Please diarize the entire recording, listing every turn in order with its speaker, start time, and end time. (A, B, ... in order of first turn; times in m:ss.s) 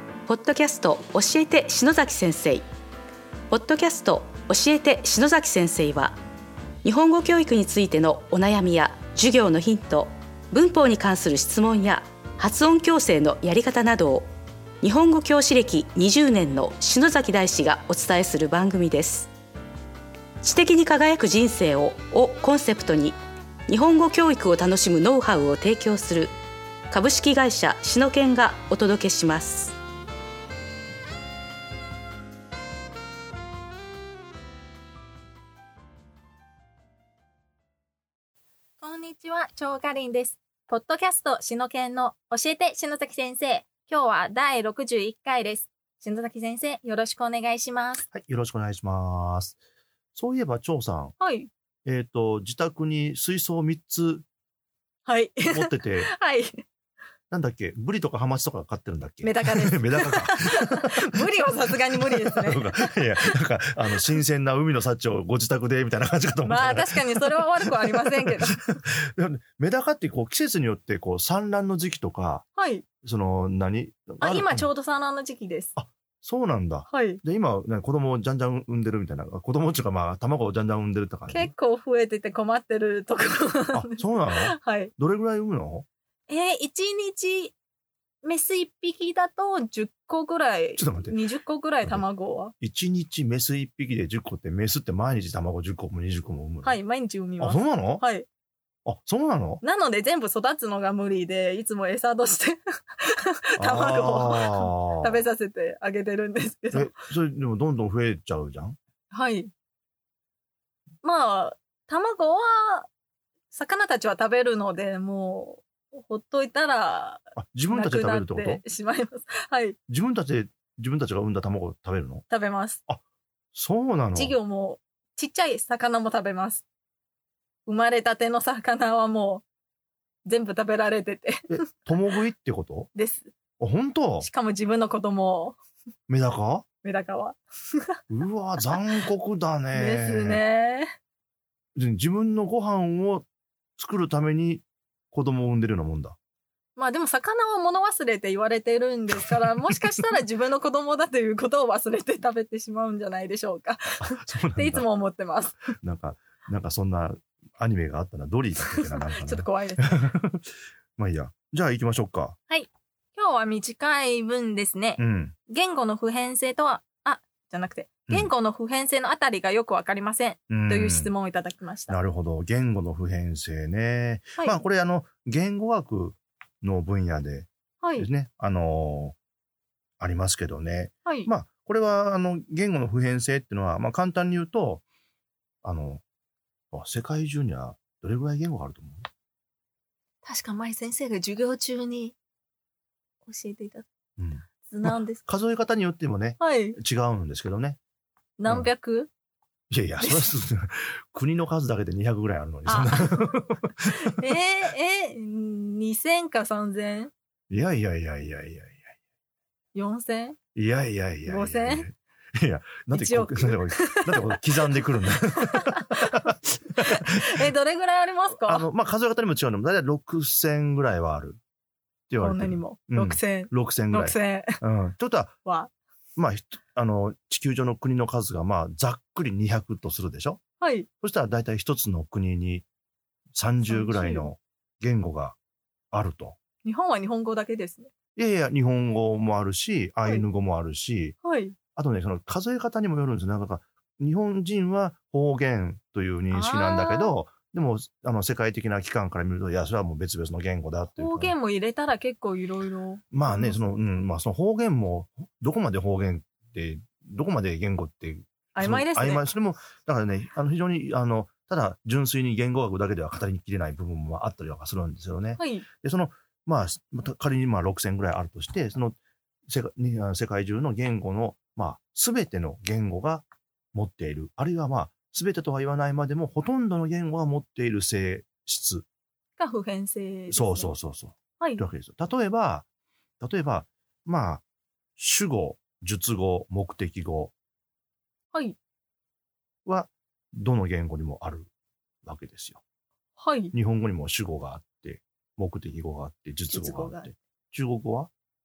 0:00.2-0:02.7 A
0:03.5-0:06.2 A
0:06.8-0:14.3 A
0:14.8-0:19.3 A
0:20.4-0:26.3 A
0:26.9-0:29.7 A
0:38.8-0:48.0 B
0:48.1-0:49.6 C
0:50.1-0:51.2 C
0:51.2-0:51.5 B
0:51.8-0:54.2 C
0:55.0-0:56.6 B
0:55.5-0:56.1 C
0:57.3-1:01.3 C
0:59.2-1:03.3 B
1:01.9-1:12.4 C
1:06.4-1:08.6 B
1:12.6-1:12.8 B
1:13.0-1:14.7 C
1:14.2-1:15.7 B
1:15.8-1:21.5 C
1:16.9-1:17.2 B
1:21.3-1:24.9 B
1:23.7-1:25.8 C
1:26.3-1:27.5 B
1:28.2-1:32.5 B
1:30.8-1:31.2 C
1:32.6-1:36.8 C
1:36.6-1:38.3 B
1:37.4-1:38.0 C
1:38.8-1:39.6 C
1:39.6-1:47.0 B
1:43.6-1:45.2 C
1:46.7-1:48.8 C
1:49.1-1:49.5 B
1:51.0-1:52.9 B
1:53.5-1:59.8 B
1:57.3-1:58.6 C
1:59.9-2:02.2 C
2:02.3-2:02.8 B
2:03.5-2:04.4 C
2:04.1-2:06.6 B
2:07.6-2:09.4 B
2:10.2-2:11.7 B
2:11.5-2:12.9 C
2:12.9-2:13.3 B
2:13.6-2:14.3 C
2:14.2-2:15.6 B
2:16.1-2:16.6 C
2:16.8-2:18.0 B
2:18.1-2:20.4 C
2:19.7-2:20.9 B
2:21.7-2:23.2 C
2:23.8-2:26.2 C
2:26.8-2:35.8 B
2:29.3-2:29.8 C
2:34.0-2:34.9 C
2:35.8-2:42.4 C
2:38.6-2:40.1 B
2:42.5-2:52.0 B
2:45.0-2:45.4 C
2:50.5-2:51.1 C
2:51.9-2:59.2 C
2:57.8-2:58.1 B
3:00.0-3:04.8 C
3:01.0-3:01.3 B
3:05.6-3:06.0 C
3:06.7-3:09.1 C
3:10.2-3:12.1 B
3:13.2-3:13.9 B
3:14.2-3:17.8 C
3:14.6-3:15.2 B
3:16.4-3:16.8 B
3:18.4-3:19.1 B
3:19.7-3:24.3 C
3:20.0-3:20.3 B
3:22.6-3:23.4 B
3:24.0-3:27.1 B
3:27.5-3:28.9 C
3:29.7-3:30.4 B
3:30.5-3:37.5 C
3:31.2-3:31.9 B
3:32.9-3:36.3 B
3:36.8-3:38.7 B
3:38.4-3:41.4 C
3:42.1-3:45.4 C
3:42.2-3:44.6 B
3:45.4-3:45.7 B
3:46.2-3:50.4 C
3:50.6-3:50.9 B
3:51.0-3:52.6 C
3:53.3-3:55.4 C
3:53.6-3:54.3 B
3:55.9-3:56.4 C
3:56.6-3:57.9 B
3:58.2-4:01.2 C
4:01.2-4:01.6 B
4:01.7-4:11.3 C
4:06.3-4:07.1 B
4:11.0-4:13.7 B
4:13.1-4:29.0 C
4:18.5-4:19.2 B
4:25.4-4:25.7 B
4:29.5-4:38.8 C
4:39.4-4:40.7 B
4:40.3-4:42.6 C
4:41.4-4:41.6 B
4:43.2-4:44.4 C
4:45.0-4:47.3 C
4:49.6-4:51.5 C
4:52.0-4:52.6 C
4:53.2-4:53.5 B
4:53.5-4:58.1 C
4:56.5-4:57.1 B